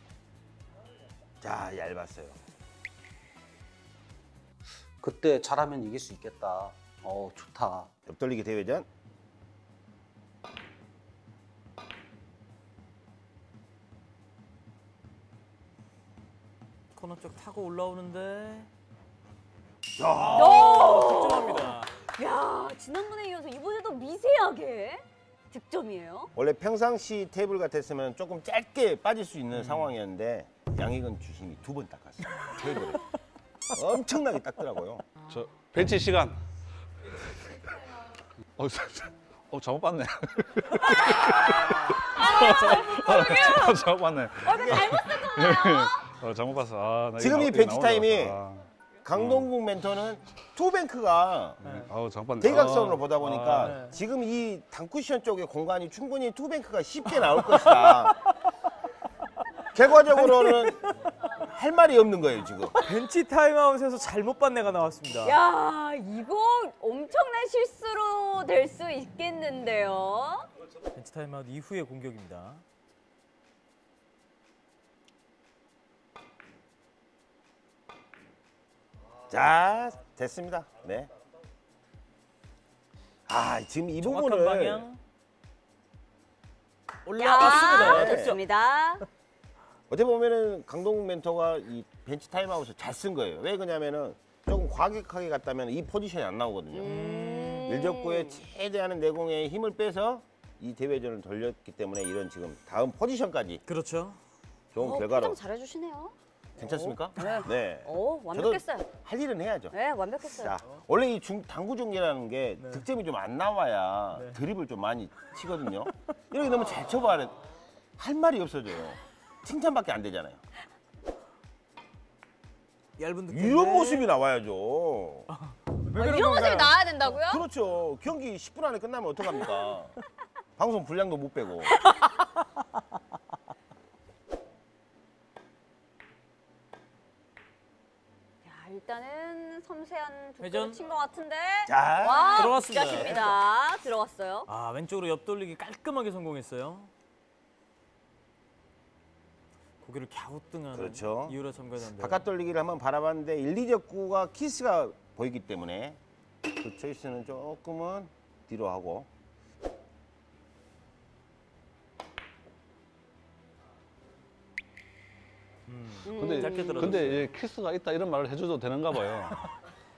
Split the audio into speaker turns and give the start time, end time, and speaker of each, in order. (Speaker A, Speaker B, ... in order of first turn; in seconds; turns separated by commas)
Speaker A: 1.4-2.4, Speaker B: 5.0-7.9, Speaker A: 8.1-8.9, Speaker C: 16.9-18.7, Speaker A: 20.0-21.1, Speaker C: 20.2-21.9, Speaker D: 20.3-26.3, Speaker A: 26.4-33.0, Speaker C: 29.6-29.9, Speaker A: 33.7-35.1, Speaker E: 35.3-36.4, Speaker E: 38.6-48.6, Speaker D: 41.1-43.9, Speaker D: 44.4-46.0, Speaker A: 44.5-45.0, Speaker A: 47.2-48.4, Speaker A: 49.0-51.6, Speaker E: 49.2-49.5, Speaker C: 51.6-51.9, Speaker E: 51.6-53.8, Speaker A: 52.4-58.1, Speaker C: 53.5-54.0, Speaker C: 57.4-58.1, Speaker A: 59.8-60.8, Speaker C: 60.1-60.9, Speaker A: 61.4-62.8, Speaker C: 62.8-65.4, Speaker D: 65.2-70.5, Speaker C: 70.9-72.6, Speaker A: 79.3-81.1, Speaker A: 83.3-84.9, Speaker C: 84.0-85.0, Speaker C: 87.0-88.4, Speaker D: 87.2-89.0, Speaker A: 87.4-88.3, Speaker A: 89.9-97.0, Speaker D: 96.7-98.4, Speaker C: 96.8-97.7, Speaker A: 97.7-103.6, Speaker C: 103.7-104.2, Speaker A: 104.7-105.4, Speaker D: 104.8-108.9, Speaker A: 106.6-109.7, Speaker D: 109.7-110.6, Speaker A: 110.3-117.4, Speaker C: 112.6-112.8, Speaker C: 114.1-114.4, Speaker A: 118.0-120.4, Speaker C: 123.0-124.1, Speaker A: 123.3-125.3, Speaker C: 125.3-126.8, Speaker D: 126.0-127.4, Speaker A: 127.3-129.9, Speaker A: 130.6-131.8, Speaker D: 138.4-144.5, Speaker C: 140.4-140.8, Speaker A: 141.7-143.2, Speaker C: 142.3-143.4, Speaker C: 144.5-146.9, Speaker C: 149.8-152.2, Speaker A: 150.7-151.4, Speaker A: 151.9-156.0, Speaker A: 156.5-159.1, Speaker C: 165.7-167.3, Speaker D: 166.0-167.2, Speaker E: 166.2-169.4